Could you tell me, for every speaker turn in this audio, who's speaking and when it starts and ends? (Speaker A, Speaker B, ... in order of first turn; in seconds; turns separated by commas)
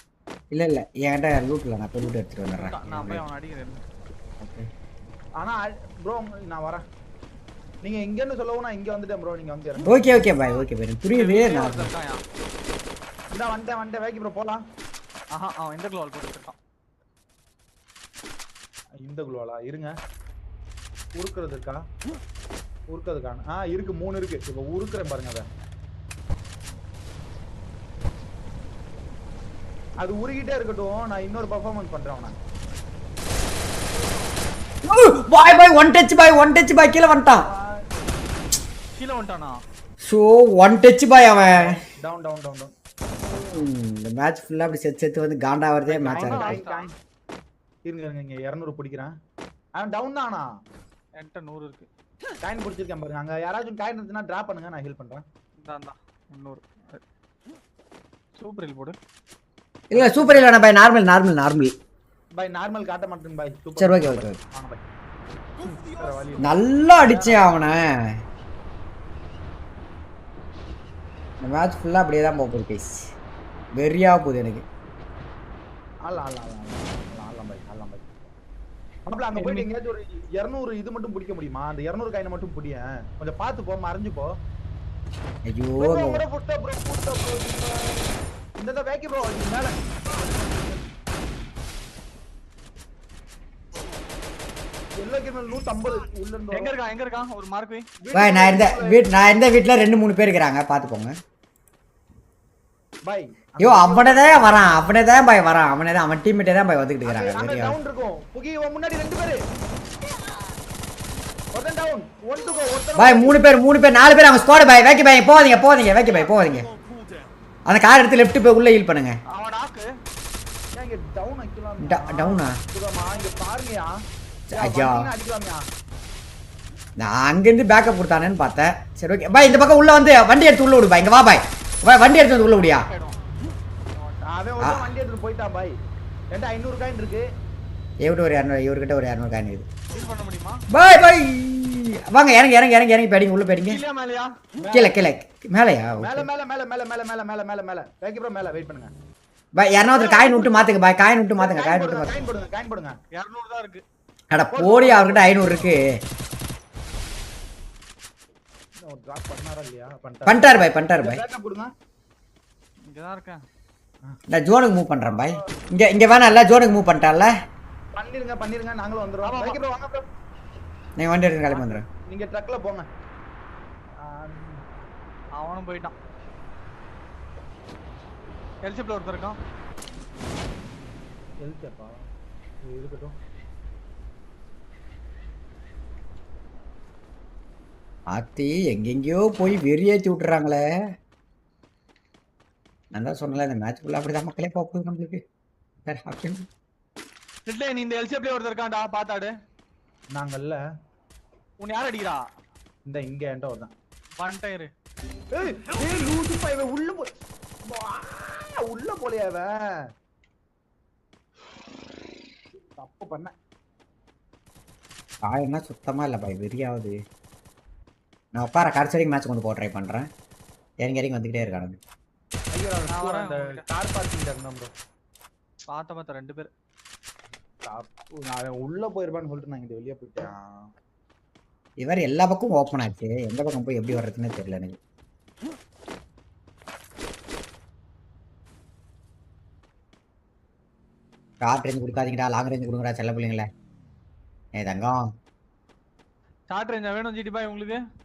Speaker A: 0.5-3.2, Speaker B: 2.5-3.8, Speaker A: 4.4-4.7, Speaker C: 5.4-6.8, Speaker C: 7.8-10.1, Speaker A: 9.8-11.9, Speaker B: 11.1-12.2, Speaker C: 13.3-14.6, Speaker B: 15.3-16.6, Speaker C: 19.0-19.9, Speaker C: 21.2-21.8, Speaker C: 22.9-25.4, Speaker C: 30.0-32.3, Speaker A: 34.8-37.5, Speaker C: 37.4-37.8, Speaker B: 38.9-39.6, Speaker A: 40.0-41.7, Speaker C: 41.5-42.7, Speaker A: 43.4-46.6, Speaker C: 45.9-46.9, Speaker B: 46.1-46.9, Speaker C: 47.9-49.1, Speaker C: 49.8-50.5, Speaker B: 51.2-51.9, Speaker C: 52.4-55.2, Speaker B: 55.6-57.0, Speaker B: 58.4-59.0, Speaker A: 59.9-61.7, Speaker C: 59.9-60.5, Speaker C: 62.4-64.8, Speaker A: 63.8-64.3, Speaker C: 65.6-67.5, Speaker A: 66.4-68.1, Speaker A: 71.4-73.1, Speaker A: 73.8-74.6, Speaker C: 76.0-78.3, Speaker C: 79.1-84.3, Speaker B: 79.3-79.7, Speaker A: 85.5-86.2, Speaker C: 85.8-90.9, Speaker C: 95.0-96.7, Speaker B: 96.5-97.9, Speaker C: 98.0-99.0, Speaker A: 98.1-101.1, Speaker C: 103.0-104.8, Speaker A: 103.6-107.8, Speaker C: 107.0-109.4, Speaker C: 111.5-113.4, Speaker A: 113.0-116.7, Speaker A: 117.7-119.2, Speaker B: 119.3-119.9, Speaker C: 120.7-124.0, Speaker A: 121.8-122.6, Speaker A: 124.5-125.1, Speaker C: 124.5-125.6, Speaker A: 127.0-132.9, Speaker B: 132.5-133.2, Speaker C: 134.2-135.7, Speaker A: 134.6-134.8, Speaker C: 136.3-137.2, Speaker A: 138.0-139.7, Speaker B: 139.9-140.6, Speaker A: 140.7-143.8, Speaker B: 143.7-144.3, Speaker C: 144.6-145.0, Speaker A: 144.7-146.3, Speaker C: 146.0-148.9, Speaker A: 149.6-152.3, Speaker C: 149.9-150.7, Speaker C: 151.3-152.9, Speaker B: 153.1-153.8, Speaker A: 154.3-155.9, Speaker C: 154.5-155.7, Speaker C: 158.8-161.7, Speaker A: 160.2-161.2, Speaker B: 162.9-163.4, Speaker A: 164.3-167.3, Speaker C: 165.0-165.5, Speaker C: 167.9-170.0, Speaker B: 169.2-169.6, Speaker A: 171.0-171.8, Speaker C: 171.5-172.9, Speaker C: 174.0-174.6, Speaker B: 175.4-175.9, Speaker B: 178.6-179.4, Speaker C: 181.4-182.0, Speaker C: 182.6-183.1, Speaker A: 188.1-190.6, Speaker A: 192.9-195.2, Speaker A: 195.8-196.5, Speaker B: 197.4-199.3, Speaker C: 200.1-200.6, Speaker B: 201.6-202.2, Speaker C: 202.9-203.7, Speaker B: 204.2-204.7, Speaker C: 205.3-207.1, Speaker C: 207.7-209.8, Speaker C: 212.8-213.3, Speaker A: 215.2-216.9, Speaker A: 218.3-220.1, Speaker A: 220.8-221.8, Speaker C: 222.5-224.7, Speaker B: 222.9-223.6, Speaker B: 225.7-226.5, Speaker C: 227.6-230.4, Speaker A: 231.8-234.8, Speaker A: 241.4-243.4, Speaker A: 244.6-245.0, Speaker B: 246.5-247.8